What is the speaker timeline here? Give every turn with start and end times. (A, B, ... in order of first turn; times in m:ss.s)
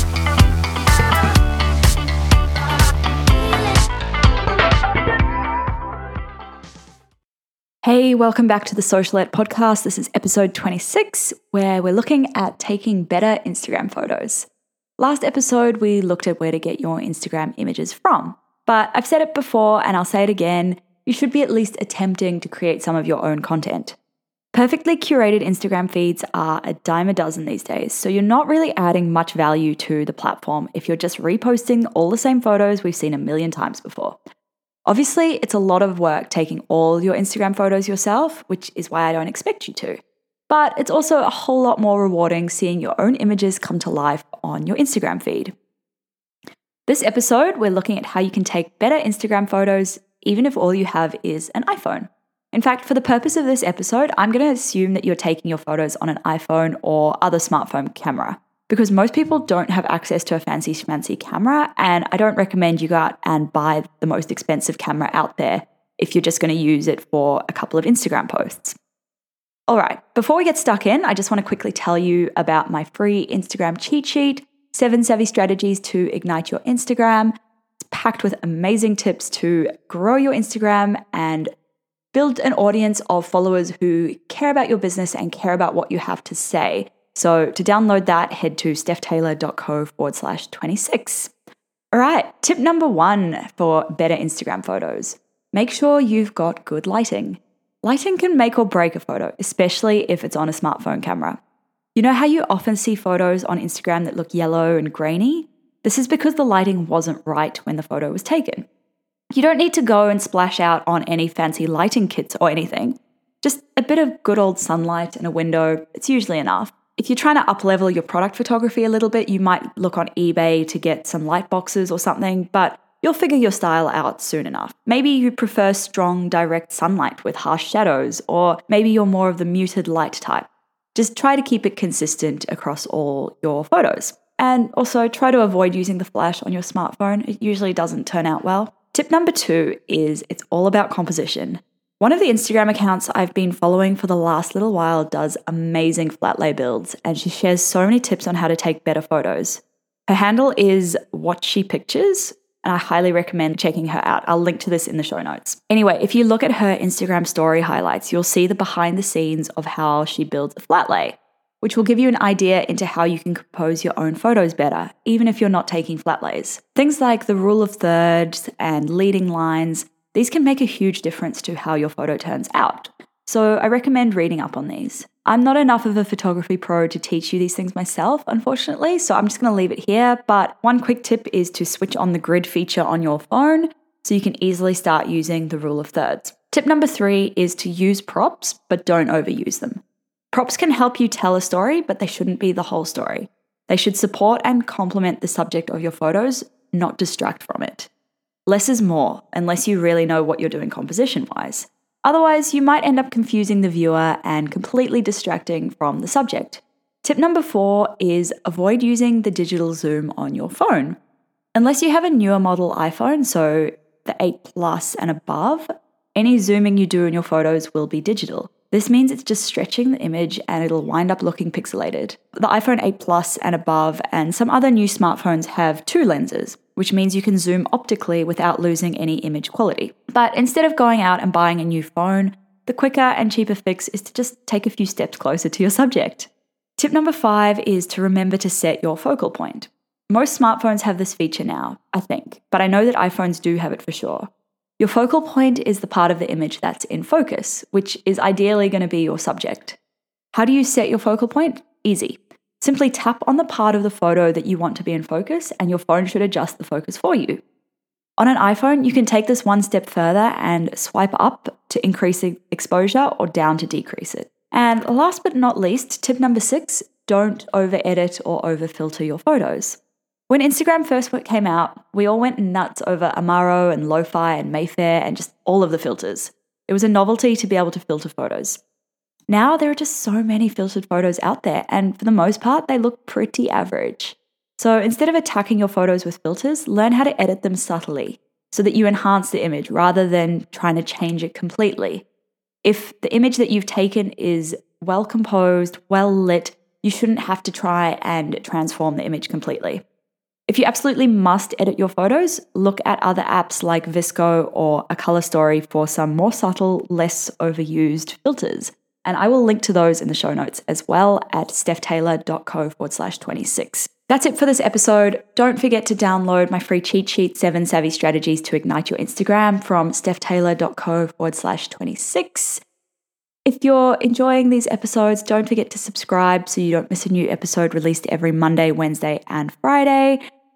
0:07.8-0:14.5 A
0:15.0-0:24.0 A
0:24.5-0:34.2 A
0:34.8-0:45.5 A
0:46.9-1:08.8 A
1:09.7-1:21.5 A
1:22.1-1:31.3 A
1:31.9-1:41.4 A
1:41.9-1:48.6 A
1:49.3-3:17.9 A
3:18.4-3:31.0 A
3:31.5-4:09.8 A
4:10.3-4:17.4 A
4:18.2-4:29.8 A
4:30.3-4:38.6 A
4:39.3-4:52.0 A
4:52.6-4:59.8 A
5:00.5-5:22.6 A
5:23.4-5:30.2 A